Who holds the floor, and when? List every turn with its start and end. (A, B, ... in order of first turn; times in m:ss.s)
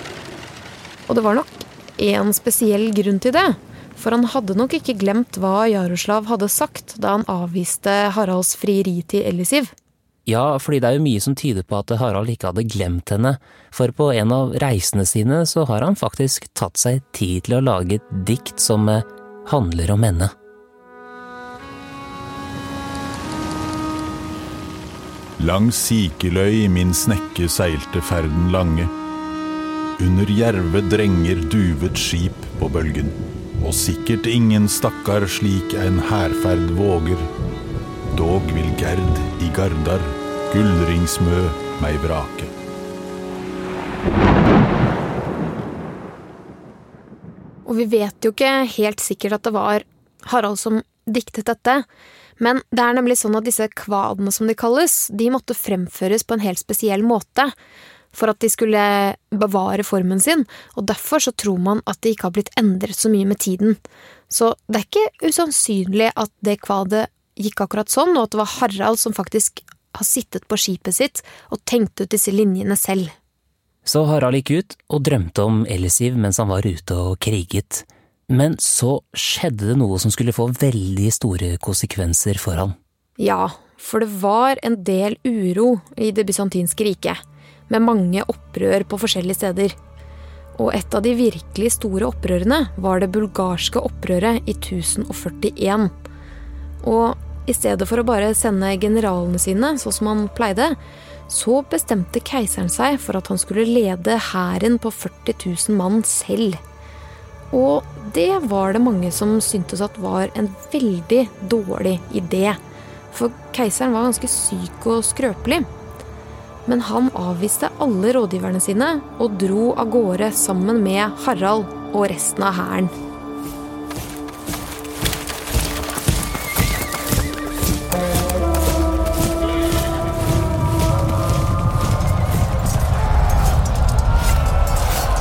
0:01.1-0:09.7 A
0:10.2-0:20.3 B
0:25.4-0:28.9 C
0:30.0-0:37.2 C
0:38.1-0:42.5 C
0:47.6-0:51.9 A
0:52.4-0:57.5 A
0:58.1-1:13.1 A
1:13.8-1:22.7 B
1:23.2-1:29.8 A
1:30.5-1:35.9 A
1:36.8-1:46.6 A
1:47.5-1:52.6 A
1:53.1-1:55.7 A
1:56.6-2:02.9 A